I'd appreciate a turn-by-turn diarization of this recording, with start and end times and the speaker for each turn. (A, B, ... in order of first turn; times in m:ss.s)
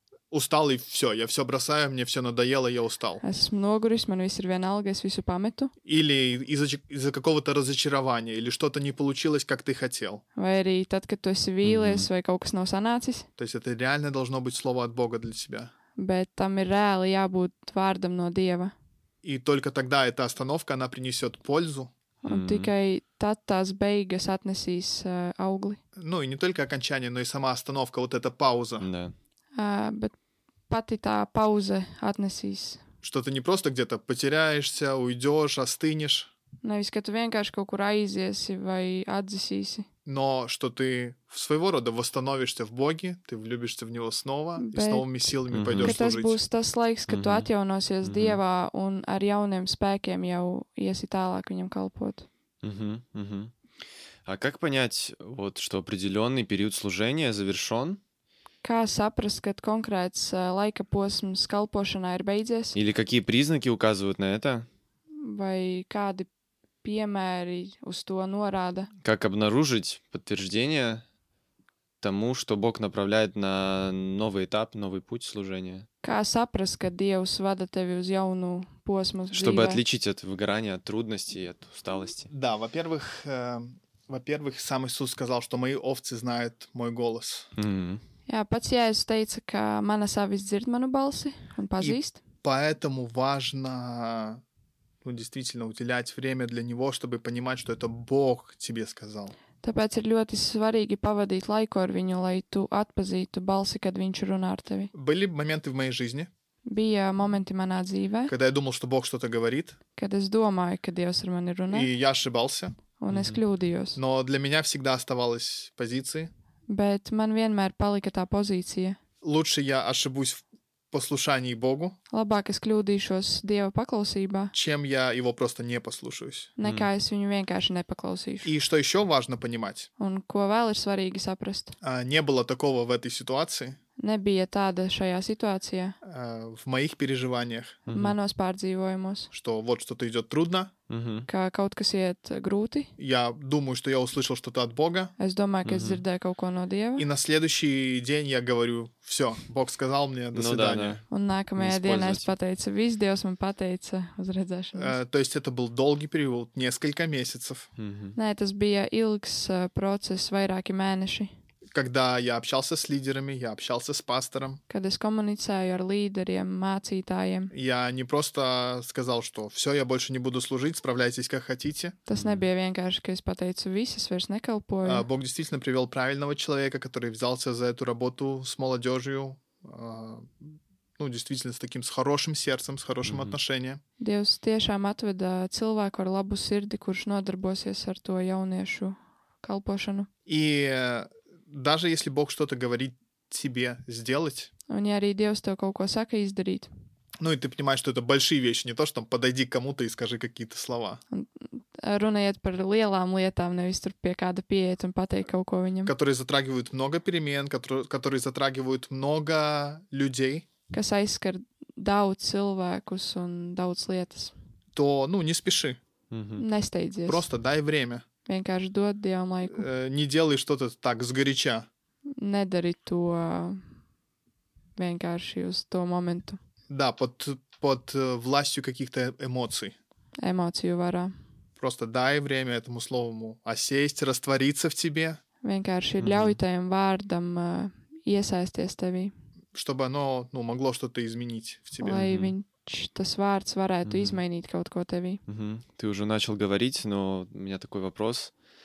0:00.3-0:03.2 A
0:03.2-0:05.7 B
0:05.8-0:10.2 A
0:10.4-0:13.3 B
0:11.6-0:12.1 C
0:13.4-0:15.7 A
0:16.0-0:18.7 B
0:19.2-0:21.9 A
0:22.2-0:25.8 B
0:22.2-0:22.7 C
0:26.0-0:28.9 A
0:28.8-0:29.1 C
0:29.6-0:30.1 B
0:30.7-0:32.8 B
0:33.0-0:36.3 A
0:36.6-0:39.9 B
0:40.1-0:46.4 A
0:44.6-0:45.1 B
0:45.5-0:45.9 C
0:45.8-0:52.3 B
0:47.1-0:47.5 C
0:48.0-0:48.4 C
0:52.6-0:53.5 C
0:54.3-0:58.0 C
0:58.6-1:02.8 B
1:02.8-1:04.7 C
1:05.2-1:06.3 B
1:06.8-1:08.9 B
1:09.0-1:11.0 C
1:12.0-1:15.9 C
1:16.0-1:19.8 B
1:19.3-1:22.3 C
1:22.3-1:27.5 A
1:27.6-1:28.0 C
1:28.3-1:32.2 B
1:31.8-1:34.4 A
1:35.0-1:39.4 A
1:39.6-1:44.9 B
1:44.9-1:46.3 A
1:46.7-1:48.3 B
1:48.3-1:49.8 A
1:50.0-1:51.9 B
1:51.7-1:52.8 A
1:53.0-1:54.0 B
1:53.1-1:53.4 C
1:54.0-1:56.3 A
1:56.7-1:59.0 B
1:59.2-2:02.0 A
2:02.1-2:04.5 B
2:04.5-2:06.5 A
2:06.6-2:08.5 B
2:06.6-2:06.9 C
2:08.4-2:09.9 A
2:10.0-2:11.8 B
2:11.8-2:13.8 A
2:14.0-2:16.0 B
2:16.0-2:17.8 A
2:17.9-2:18.2 C
2:17.9-2:19.3 B
2:19.3-2:20.7 A
2:20.9-2:21.3 C
2:21.3-2:22.9 B
2:23.0-2:25.1 A
2:25.2-2:27.1 B
2:25.6-2:26.0 C
2:27.0-2:31.0 A
2:30.3-2:31.1 C
2:31.1-2:35.0 B
2:31.6-2:32.3 C
2:34.7-2:37.7 A
2:37.8-2:38.2 C
2:38.2-2:41.3 B
2:41.7-2:44.6 A
2:44.7-2:47.5 B
2:47.5-2:52.0 A
2:52.1-2:55.1 B
2:52.1-2:52.4 C
2:54.8-3:03.8 A
3:03.0-3:03.4 C
3:04.0-3:10.1 B
3:10.3-3:14.5 A
3:14.7-3:16.7 B
3:17.2-3:21.0 A
3:21.1-3:25.9 B
3:25.8-3:30.5 A
3:30.7-3:34.3 B
3:34.8-3:35.8 A
3:36.1-3:36.4 C
3:36.4-3:37.3 B
3:37.1-3:38.0 A
3:38.3-3:39.7 B
3:39.5-3:41.7 A
3:42.2-3:43.6 B
3:44.8-3:46.4 B
3:46.7-3:49.8 A
3:50.2-3:51.1 B
3:51.6-3:55.2 A
3:55.4-3:59.1 B
3:56.0-3:56.4 C
3:59.5-4:02.0 A
4:01.8-4:05.2 B
4:01.9-4:02.4 C
4:03.9-4:04.2 C
4:05.3-4:08.3 C